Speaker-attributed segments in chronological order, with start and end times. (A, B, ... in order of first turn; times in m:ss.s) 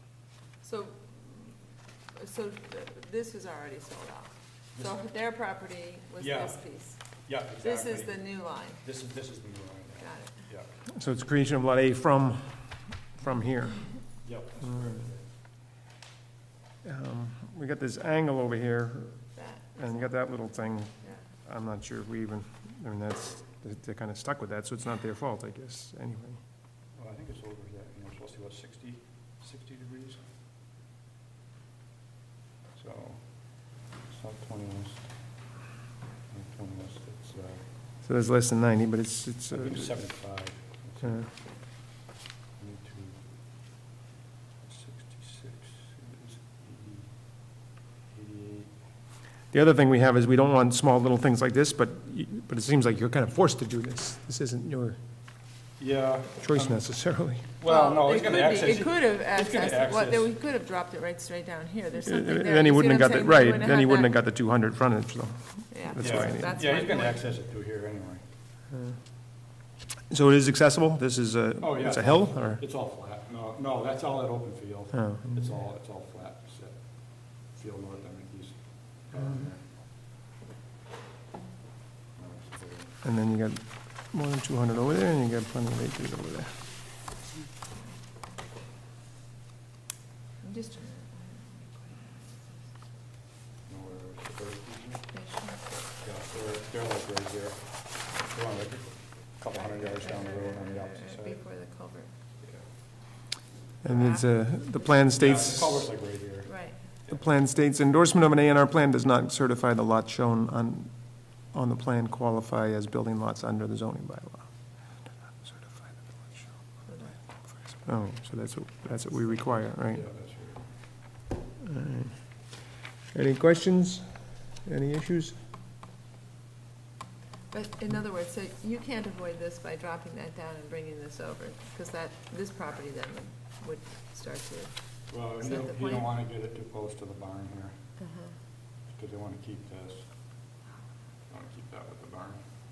0:00.6-0:01.6 A
0:02.1-0:08.8 A
0:04.7-0:05.1 B
0:06.2-0:10.7 B
0:10.0-0:10.4 A
0:10.9-0:15.1 C
0:14.2-0:15.3 B
0:16.8-0:26.4 C
0:19.4-0:21.3 A
0:26.9-0:30.3 B
0:32.7-0:35.4 B
0:36.3-0:37.7 B
0:38.0-0:40.2 C
0:39.5-0:42.0 B
0:41.0-0:41.3 C
0:42.6-0:43.3 B
0:44.6-0:47.5 B
0:48.1-0:48.7 B
0:49.5-0:55.0 C
0:55.8-1:00.3 B
0:56.4-0:57.4 C
0:57.6-1:04.2 A
1:01.9-1:06.7 C
1:05.7-1:07.2 A
1:06.0-1:08.2 B
1:08.7-1:09.0 C
1:10.1-1:12.6 C
1:11.6-1:19.6 B
1:14.9-1:15.6 C
1:19.1-1:19.5 C
1:22.1-1:22.9 B
1:23.0-1:26.5 C
1:30.4-1:32.7 A
1:33.6-1:35.1 B
1:35.1-1:35.8 A
1:36.0-1:41.4 B
1:39.5-1:42.1 A
1:42.4-1:42.7 B
1:43.8-1:45.9 C
1:43.8-1:44.8 A
1:45.1-1:47.2 B
1:46.4-1:46.8 A
1:47.1-1:56.6 C
1:56.8-1:57.2 A
1:57.4-2:00.1 C
1:59.2-2:00.7 B
2:01.6-2:04.0 C
2:04.6-2:05.4 C
2:07.5-2:16.1 A
2:15.1-2:17.8 B
2:18.0-2:18.3 A
2:18.8-2:20.1 B
2:21.3-2:22.4 B